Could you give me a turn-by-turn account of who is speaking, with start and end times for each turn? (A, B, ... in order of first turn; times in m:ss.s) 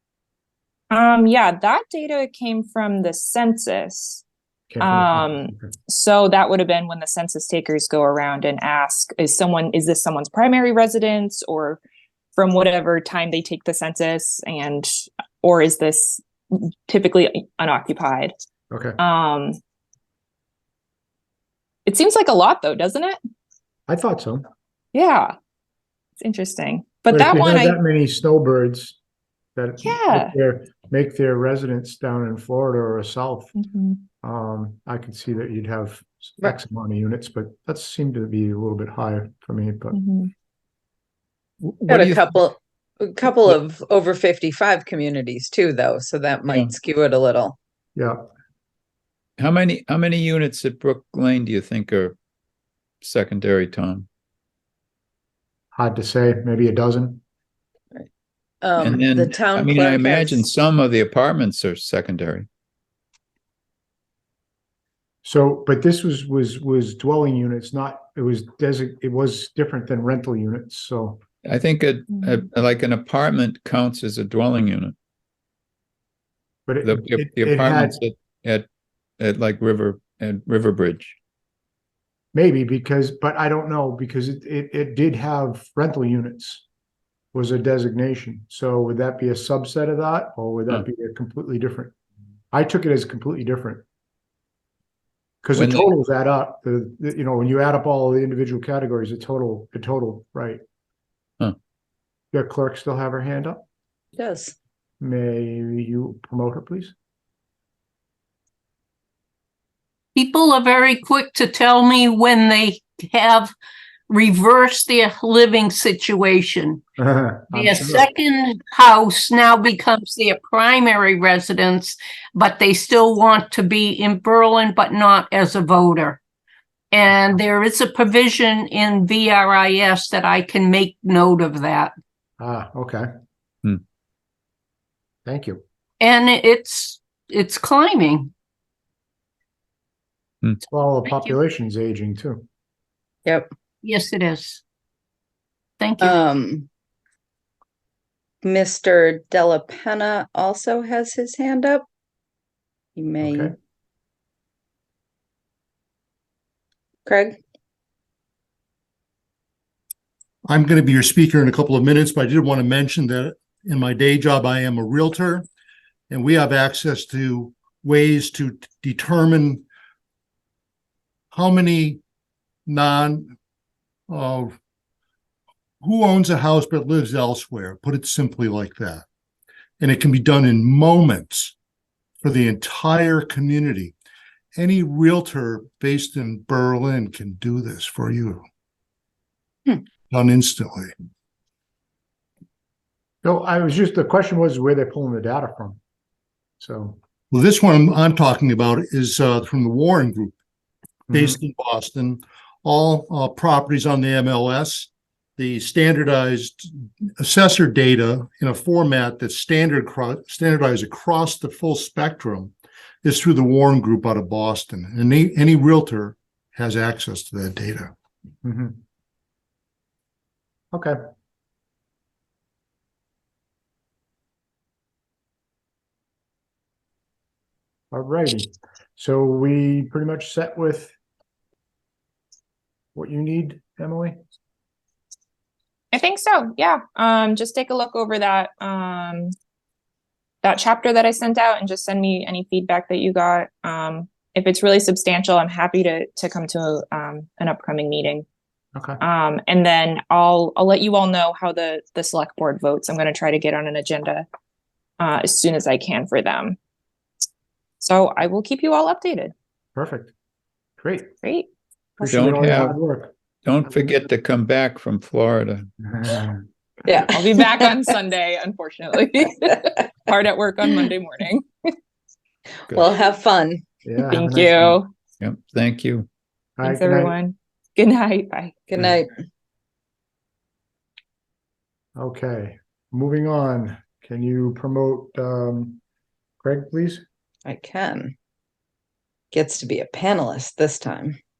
0:00.9-0:04.2 A
0:04.7-0:05.7 B
0:04.8-0:11.8 A
0:12.4-0:18.3 A
0:18.7-0:19.0 B
0:19.0-0:19.6 A
0:21.9-0:23.2 A
0:23.9-0:24.4 B
0:24.9-0:25.3 A
0:26.2-0:27.8 A
0:27.1-0:29.0 B
0:29.6-0:33.5 B
0:29.8-0:30.3 A
0:33.6-0:34.0 A
0:34.2-0:40.0 B
0:39.9-0:40.3 A
0:41.6-0:42.2 C
0:41.9-0:47.6 D
0:48.0-0:48.2 B
0:49.4-0:52.2 C
0:53.0-0:54.1 C
0:55.7-0:57.2 B
0:58.6-1:00.4 D
0:58.8-1:02.5 C
1:05.2-1:11.2 B
1:11.4-1:15.0 C
1:16.7-1:18.0 B
1:16.8-1:18.7 C
1:19.2-1:21.2 C
1:22.3-1:26.6 B
1:27.3-1:31.9 B
1:32.5-1:33.8 B
1:35.4-1:40.6 B
1:35.6-1:35.9 C
1:42.3-1:43.6 B
1:44.2-1:44.5 D
1:45.0-1:46.9 B
1:50.2-1:53.5 E
1:54.1-1:56.8 E
1:57.0-1:58.1 B
1:57.5-2:06.2 E
2:06.9-2:11.9 E
2:12.4-2:13.1 B
2:15.2-2:15.6 B
2:16.0-2:18.3 E
2:20.7-2:22.4 B
2:21.0-2:21.3 E
2:23.8-2:24.6 E
2:25.8-2:26.2 E
2:26.0-2:26.7 D
2:28.4-2:31.8 D
2:33.0-2:33.5 D
2:33.2-2:33.5 B
2:37.0-2:37.4 D
2:40.5-2:45.5 F
2:46.1-2:49.6 F
2:51.3-2:52.0 F
2:52.7-2:53.3 F
2:54.1-2:54.6 F
2:55.8-2:59.0 F
2:59.8-3:01.5 F
3:02.2-3:03.9 F
3:04.5-3:08.4 F
3:10.1-3:10.9 F
3:13.2-3:15.8 B
3:16.6-3:17.0 B
3:17.3-3:20.3 F
3:21.1-3:37.9 F
3:21.1-3:21.4 B
3:38.4-3:38.8 B
3:40.7-3:41.0 B
3:47.9-3:50.9 B
3:52.9-3:54.2 B
3:55.9-3:59.3 A
4:00.4-4:08.2 A
4:08.7-4:09.0 B
4:09.0-4:14.2 A
4:15.0-4:16.6 A
4:17.8-4:19.3 A
4:19.8-4:20.1 B
4:20.8-4:21.2 B
4:22.0-4:23.1 B
4:22.1-4:22.8 C
4:23.4-4:25.7 C
4:25.8-4:26.4 B
4:26.8-4:27.2 D
4:27.1-4:31.7 A
4:32.7-4:33.6 D
4:33.8-4:34.8 B
4:34.1-4:34.9 A
4:35.2-4:36.1 C
4:36.6-4:37.2 B
4:36.6-4:38.6 A
4:38.7-4:39.2 D
4:42.0-4:45.8 B
4:46.4-4:47.0 B
4:47.4-4:48.1 D
4:49.3-4:51.2 D